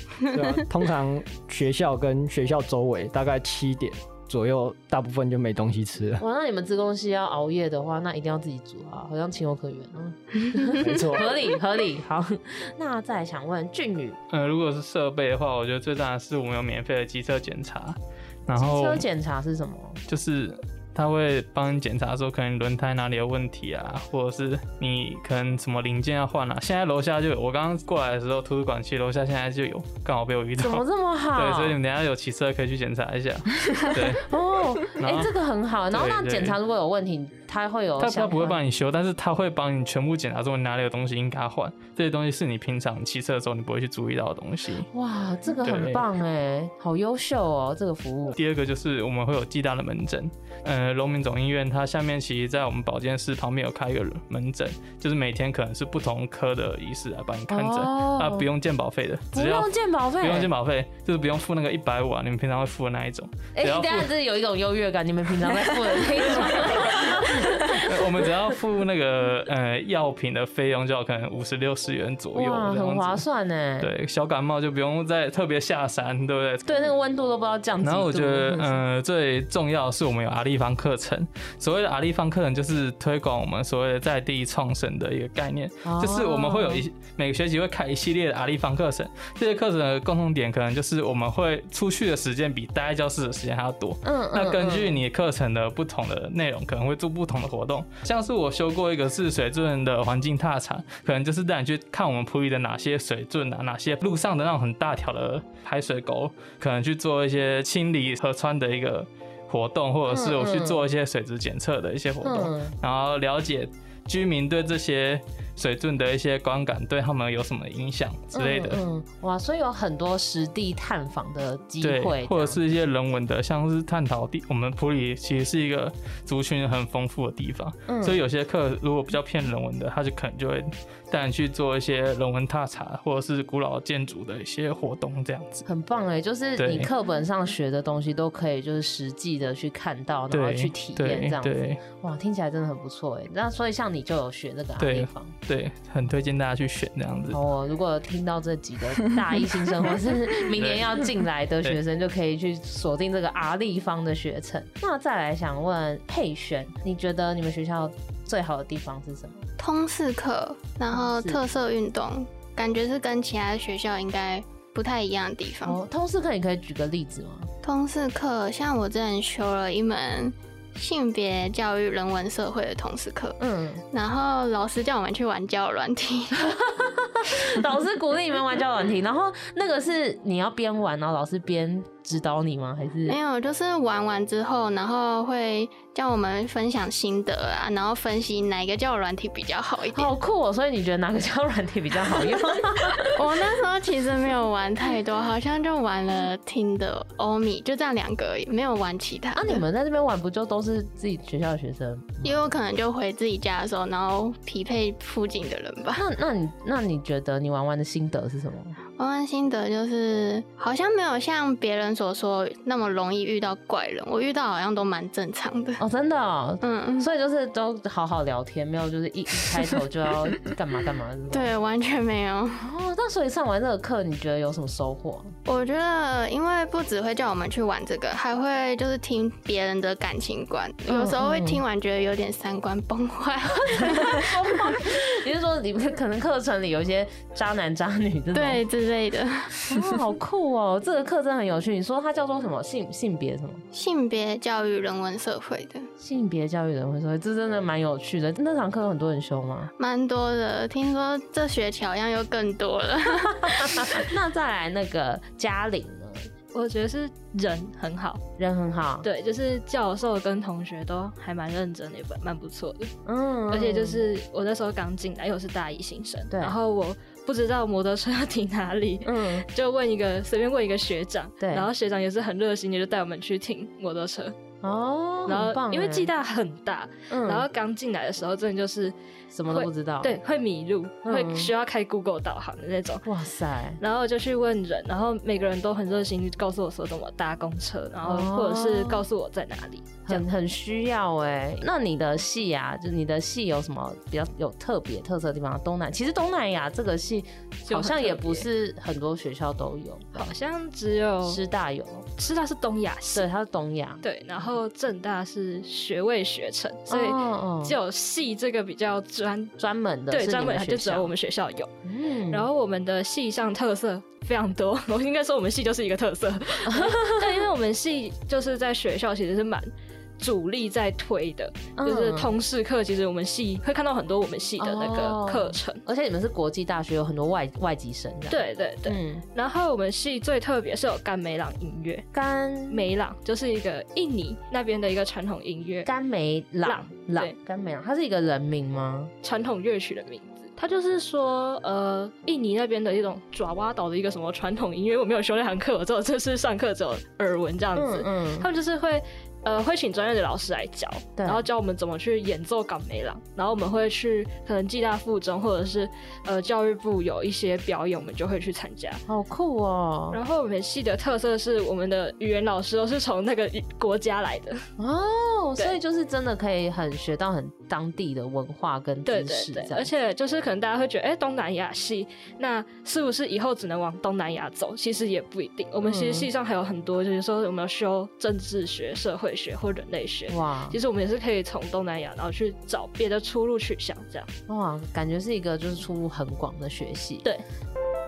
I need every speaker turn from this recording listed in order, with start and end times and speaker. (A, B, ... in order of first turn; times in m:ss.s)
0:00.3-0:06.2 A
0:06.2-0:14.2 B
0:10.8-0:11.3 A
0:14.3-0:19.0 C
0:18.6-0:20.0 B
0:20.1-0:34.3 C
0:30.6-0:31.8 B
0:34.2-0:38.6 B
0:34.8-0:35.3 C
0:35.9-0:36.6 C
0:38.0-0:44.9 C
0:44.9-0:48.4 B
0:45.6-0:46.0 C
0:48.4-1:04.1 C
0:57.5-0:58.4 B
0:59.3-1:00.5 B
1:03.6-1:07.9 B
1:07.8-1:13.2 C
1:12.3-1:13.9 B
1:13.8-1:16.7 C
1:16.6-1:18.8 B
1:17.8-1:58.8 C
1:25.8-1:26.8 B
1:34.0-1:35.0 B
1:50.1-1:50.8 B
1:52.2-1:52.7 B
1:58.3-2:02.6 B
2:01.8-2:15.6 C
2:07.9-2:08.2 B
2:15.6-2:25.3 B
2:16.6-2:16.9 C
2:20.3-2:21.8 C
2:24.8-2:27.4 C
2:27.3-2:39.5 B
2:30.5-2:31.1 C
2:39.6-2:45.8 D
2:40.9-2:41.4 B
2:45.6-2:47.5 B
2:47.6-2:53.4 D
2:53.4-2:53.8 B
2:53.9-2:56.4 D
2:56.5-3:03.2 B
3:03.1-3:10.1 D
3:09.9-3:13.1 B
3:13.2-3:19.6 D
3:19.3-3:22.5 B
3:22.2-3:26.0 D
3:25.9-3:28.8 B
3:29.0-3:35.8 D
3:35.8-3:41.5 B
3:36.6-3:37.1 D
3:41.3-3:42.6 D
3:42.6-3:45.3 B
3:45.5-3:54.3 D
3:50.9-3:51.6 B
3:53.8-3:58.6 B
3:58.3-3:59.6 D
3:59.6-4:03.6 B
4:03.7-4:05.9 D
4:06.0-4:09.7 B
4:09.8-4:13.9 D
4:13.5-4:16.3 B
4:16.5-4:18.2 E
4:18.4-4:19.0 B
4:19.0-4:22.9 E
4:23.0-4:24.0 B
4:23.5-4:34.3 E
4:26.3-4:26.6 B
4:29.0-4:29.4 B
4:31.4-4:31.7 B
4:34.6-4:36.1 B
4:35.2-4:38.9 E
4:37.1-4:37.5 B
4:39.3-4:40.2 B
4:39.5-4:43.0 E
4:41.0-4:41.5 B
4:43.0-4:43.8 B
4:43.8-4:50.2 E
4:48.0-4:49.0 B
4:50.0-5:00.3 B
4:57.6-4:58.4 E
5:00.1-5:01.4 E
5:01.2-5:02.0 B
5:02.2-5:03.3 E
5:03.1-5:04.5 B
5:04.0-5:09.5 E
5:06.9-5:07.8 B
5:09.6-5:11.1 B
5:10.1-5:11.7 E
5:11.8-5:12.5 B
5:12.3-5:25.8 E
5:16.7-5:17.2 B
5:21.8-5:22.3 B
5:24.6-5:29.2 B
5:28.3-5:32.0 E
5:32.1-5:32.8 B
5:32.7-5:35.9 E
5:35.8-5:39.1 B
5:36.6-5:37.4 E
5:39.2-5:59.0 E
5:47.7-5:48.5 B
5:51.2-5:51.4 B
5:59.1-6:00.2 B
6:00.1-6:04.6 E
6:04.8-6:09.9 B
6:09.0-6:24.3 E
6:15.8-6:16.3 B
6:20.3-6:20.8 B
6:24.5-6:27.2 B